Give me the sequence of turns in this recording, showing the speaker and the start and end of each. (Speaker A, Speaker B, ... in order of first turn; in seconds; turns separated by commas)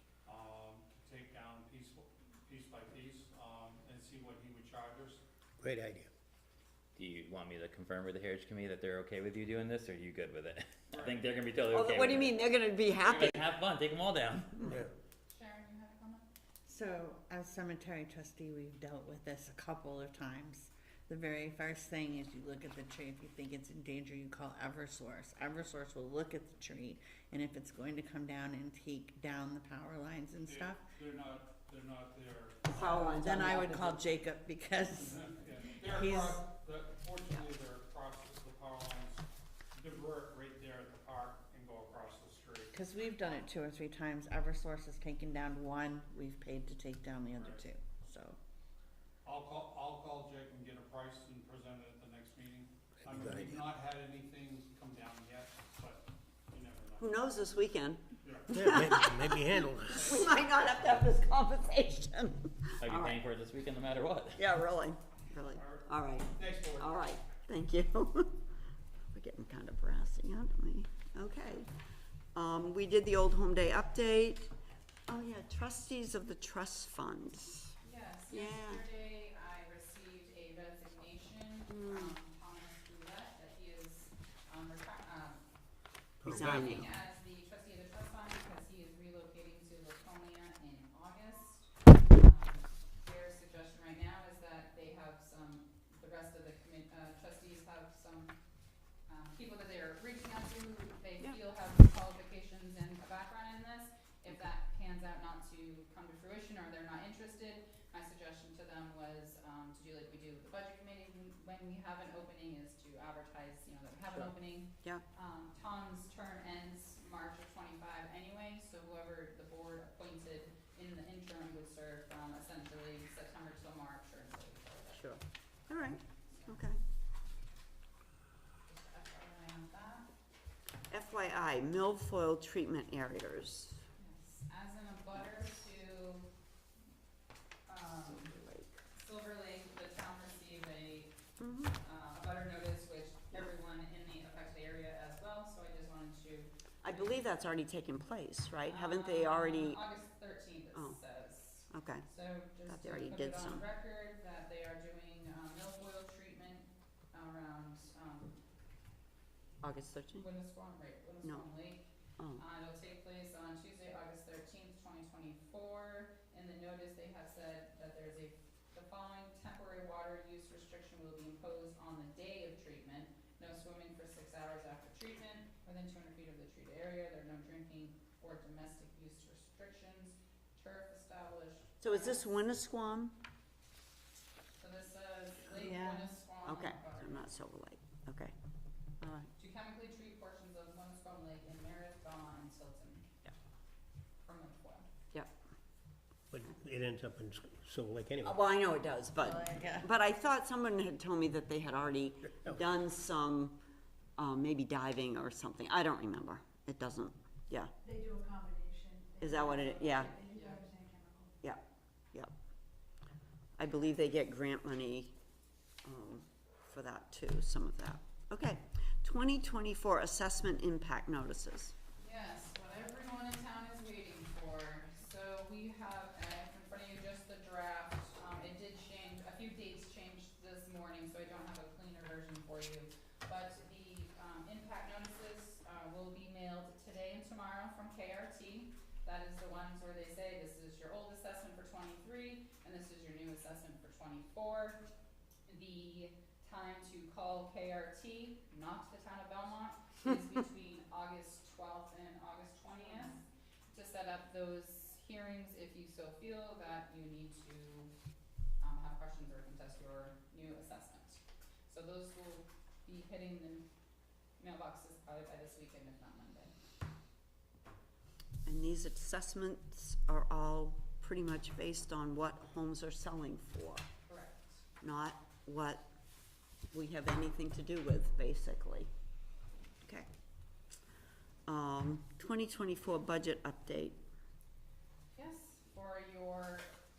Speaker A: 0.2-5.2, Speaker B: 5.6-6.1, Speaker C: 7.0-12.4, Speaker A: 10.9-11.3, Speaker D: 11.7-13.4, Speaker C: 13.0-14.7, Speaker B: 14.6-14.9, Speaker E: 15.3-16.3, Speaker F: 16.7-30.8, Speaker A: 30.4-33.1, Speaker D: 32.7-34.0, Speaker F: 32.8-36.4, Speaker A: 34.9-42.8, Speaker F: 42.7-48.4, Speaker A: 47.4-47.6, Speaker A: 49.2-57.2, Speaker B: 53.0-53.6, Speaker D: 57.0-63.2, Speaker A: 58.2-58.6, Speaker B: 58.5-60.1, Speaker A: 59.9-60.9, Speaker C: 62.8-64.4, Speaker D: 64.4-68.4, Speaker A: 65.5-67.0, Speaker D: 69.1-71.7, Speaker D: 72.3-74.5, Speaker D: 75.1-77.7, Speaker E: 77.8-85.4, Speaker D: 78.3-78.8, Speaker D: 81.7-82.1, Speaker B: 86.2-86.8, Speaker D: 86.2-86.9, Speaker E: 86.2-98.3, Speaker E: 99.1-125.1, Speaker D: 114.1-115.0, Speaker D: 124.9-126.8, Speaker E: 126.3-126.6, Speaker E: 128.7-130.1, Speaker D: 130.9-133.8, Speaker E: 134.0-136.3, Speaker E: 137.7-138.4, Speaker D: 138.1-138.8, Speaker E: 138.9-141.1, Speaker D: 141.4-141.7, Speaker E: 141.7-146.5, Speaker D: 146.8-149.8, Speaker E: 148.7-158.3, Speaker D: 151.7-152.1, Speaker D: 152.7-153.6, Speaker D: 159.6-160.2, Speaker E: 160.2-182.3, Speaker D: 181.8-183.2, Speaker E: 184.6-187.3, Speaker F: 185.6-186.1, Speaker D: 186.4-188.3, Speaker D: 189.0-189.3, Speaker E: 189.4-193.1, Speaker E: 194.2-194.9, Speaker B: 196.3-198.4, Speaker D: 198.2-203.6, Speaker F: 199.2-199.9, Speaker D: 204.2-207.7, Speaker G: 207.8-211.3, Speaker D: 209.2-210.2, Speaker E: 210.3-210.6, Speaker D: 213.6-215.1, Speaker D: 215.8-221.7, Speaker E: 222.0-244.8, Speaker E: 245.5-257.9, Speaker E: 258.6-263.7, Speaker E: 264.4-266.5, Speaker D: 268.4-273.9, Speaker E: 274.1-274.6, Speaker D: 274.8-275.9, Speaker D: 276.7-278.9, Speaker D: 281.4-284.0, Speaker E: 285.1-286.7